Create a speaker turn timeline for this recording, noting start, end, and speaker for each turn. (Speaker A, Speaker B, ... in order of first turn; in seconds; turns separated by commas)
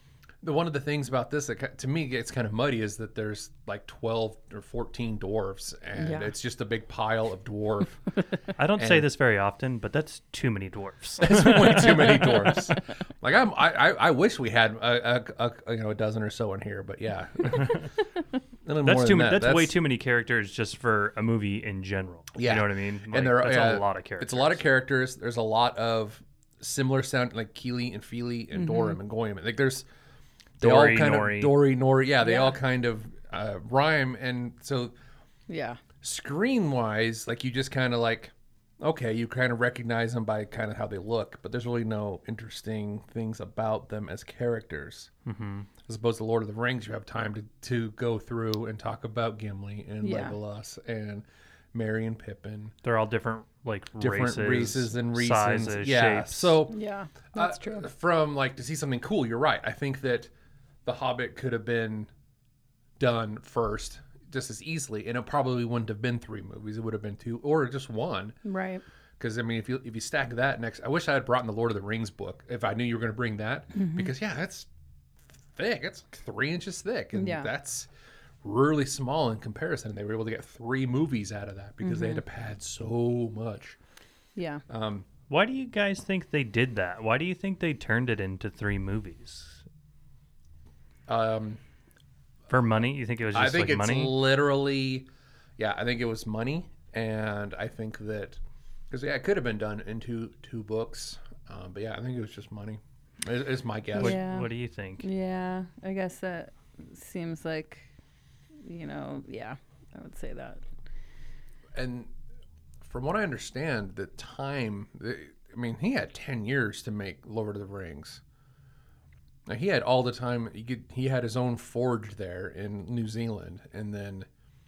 Speaker A: 0.4-8.0, Speaker B: 6.0-6.3, Speaker C: 8.6-12.6, Speaker A: 8.8-9.1, Speaker A: 11.2-17.9, Speaker A: 18.6-19.7, Speaker C: 18.9-24.6, Speaker A: 22.4-29.9, Speaker B: 28.6-29.0, Speaker A: 30.6-34.9, Speaker C: 30.6-31.6, Speaker B: 32.2-32.6, Speaker B: 35.5-35.8, Speaker A: 36.0-45.1, Speaker C: 45.3-45.7, Speaker A: 45.9-52.7, Speaker B: 50.0-50.4, Speaker C: 52.8-56.6, Speaker A: 54.0-56.8, Speaker B: 56.7-57.9, Speaker A: 57.3-60.3, Speaker A: 60.9-62.1, Speaker A: 63.0-68.4, Speaker B: 68.4-68.8, Speaker A: 69.2-74.7, Speaker B: 73.8-74.1, Speaker A: 75.5-77.9, Speaker B: 77.1-77.5, Speaker A: 78.4-83.8, Speaker B: 81.8-82.2, Speaker B: 84.3-84.6, Speaker A: 84.7-85.1, Speaker C: 85.3-89.6, Speaker A: 91.1-91.6, Speaker C: 92.5-94.2, Speaker A: 93.3-95.1, Speaker A: 95.6-98.4, Speaker A: 98.9-104.2, Speaker B: 104.0-107.9, Speaker C: 104.0-105.1, Speaker B: 108.6-110.6, Speaker A: 111.8-112.1, Speaker A: 112.8-118.2, Speaker A: 119.5-124.3